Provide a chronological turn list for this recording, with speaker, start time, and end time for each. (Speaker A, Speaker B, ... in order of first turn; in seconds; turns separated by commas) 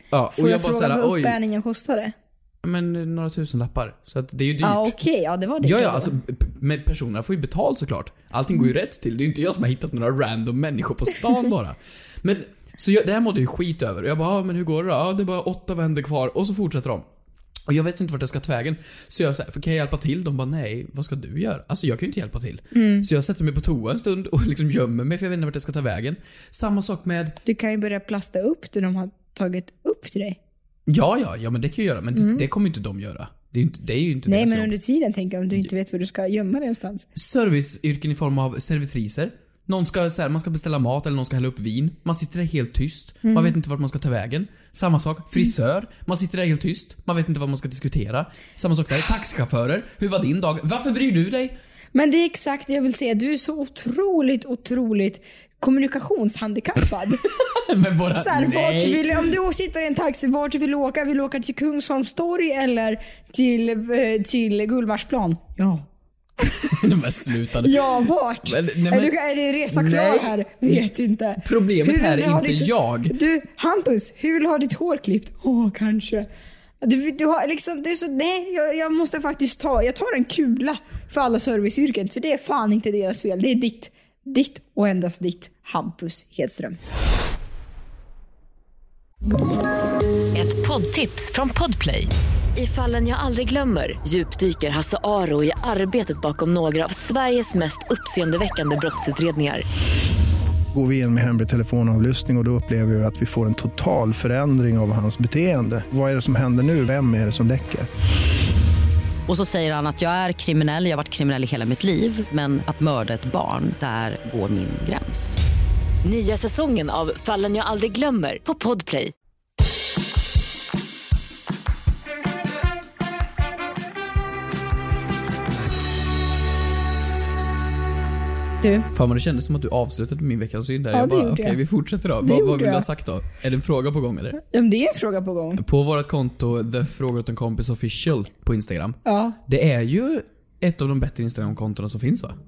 Speaker A: 0.1-1.4, Speaker B: 0.3-2.1, Speaker A: 2.6-5.0, Speaker B: 4.6-6.1, Speaker A: 5.6-17.1, Speaker A: 17.7-27.4, Speaker B: 22.7-23.1, Speaker B: 27.4-30.4, Speaker A: 30.9-34.7, Speaker B: 32.1-32.5, Speaker B: 34.3-37.1, Speaker A: 37.1-51.5, Speaker B: 43.2-43.5, Speaker B: 51.9-57.2, Speaker A: 57.4-59.3, Speaker B: 58.2-65.9, Speaker A: 66.7-69.2, Speaker B: 67.6-76.3, Speaker A: 69.7-70.9, Speaker A: 71.4-73.2, Speaker B: 76.8-86.8, Speaker C: 90.3-99.6, Speaker D: 100.7-107.9, Speaker E: 109.3-115.4, Speaker C: 116.0-119.1, Speaker B: 128.6-128.9, Speaker A: 128.9-134.4, Speaker B: 130.9-131.6, Speaker B: 132.2-132.9, Speaker B: 134.4-135.6, Speaker A: 135.6-142.4, Speaker B: 139.1-139.4